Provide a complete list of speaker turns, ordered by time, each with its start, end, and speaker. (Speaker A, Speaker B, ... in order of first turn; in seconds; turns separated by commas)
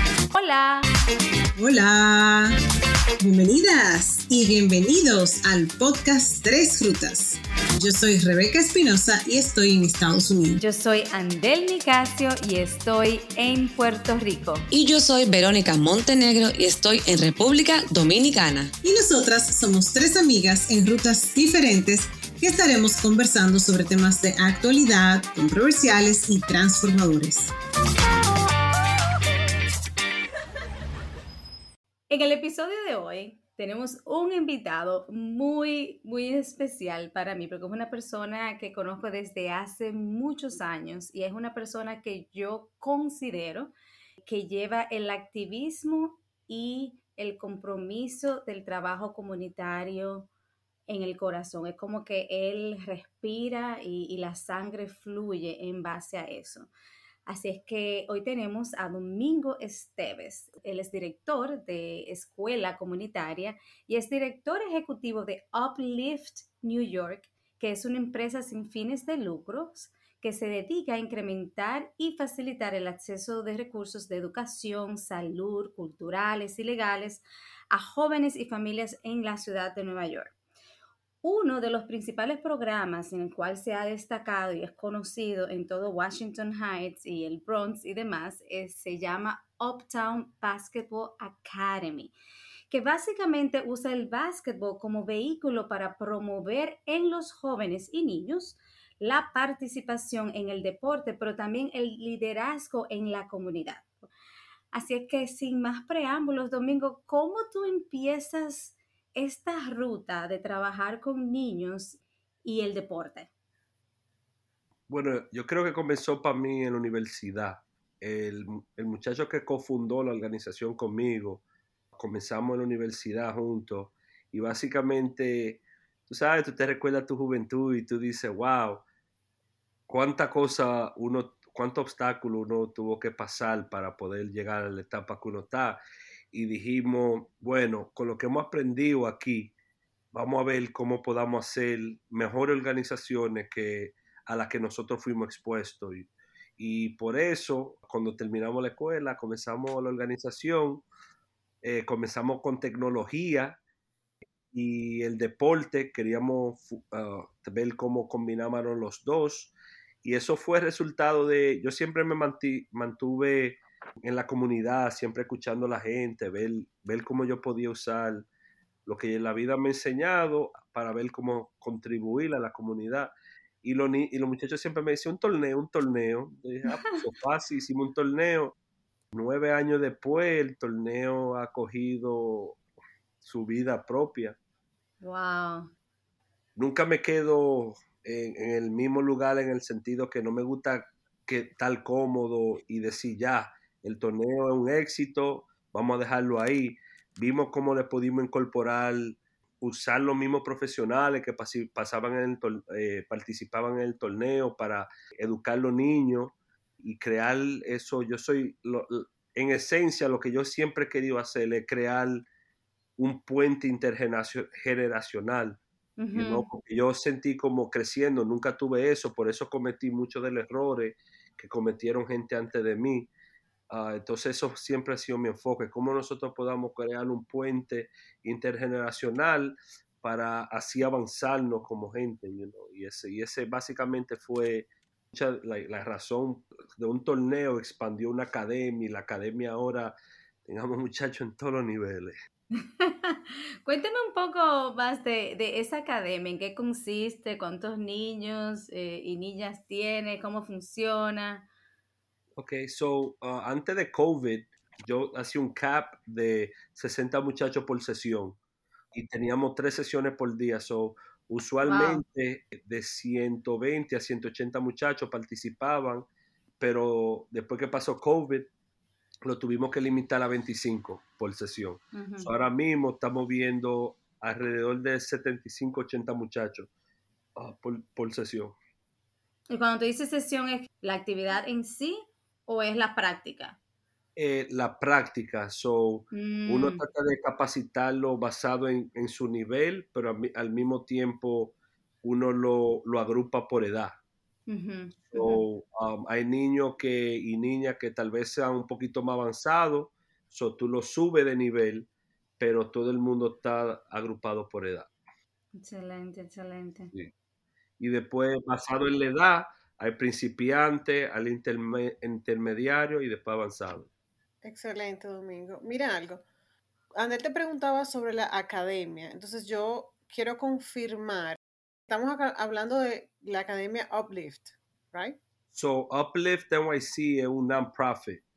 Speaker A: 0.3-0.9, Speaker B: 1.5-2.5, Speaker B: 3.2-10.6, Speaker A: 10.6-14.7, Speaker C: 14.7-18.7, Speaker B: 18.8-27.5, Speaker A: 32.1-50.3, Speaker A: 50.9-56.7, Speaker A: 57.2-80.3, Speaker A: 81.2-92.1, Speaker A: 92.7-104.1, Speaker A: 104.7-113.3, Speaker D: 114.9-128.8, Speaker D: 129.9-135.8, Speaker D: 136.3-139.5, Speaker D: 140.1-150.8, Speaker D: 151.6-153.6, Speaker D: 154.5-168.3, Speaker D: 168.8-178.6, Speaker D: 179.1-182.6, Speaker D: 183.2-184.4, Speaker A: 185.0-185.7, Speaker D: 186.6-212.2, Speaker D: 213.0-215.6, Speaker A: 216.0-216.5, Speaker D: 216.1-223.1, Speaker D: 223.7-239.9, Speaker D: 240.4-242.2, Speaker A: 242.6-251.4, Speaker D: 252.4-258.4, Speaker D: 258.9-266.1, Speaker A: 261.6-262.0, Speaker D: 266.6-268.5, Speaker D: 269.2-276.7, Speaker A: 271.9-272.3, Speaker D: 277.4-278.6, Speaker A: 279.5-283.6, Speaker D: 284.1-294.0, Speaker A: 286.1-286.8, Speaker A: 294.5-295.4, Speaker D: 295.1-304.9, Speaker A: 305.5-306.9, Speaker D: 307.8-313.9, Speaker E: 314.4-316.2, Speaker E: 316.9-321.4, Speaker E: 321.9-325.2, Speaker D: 325.5-328.2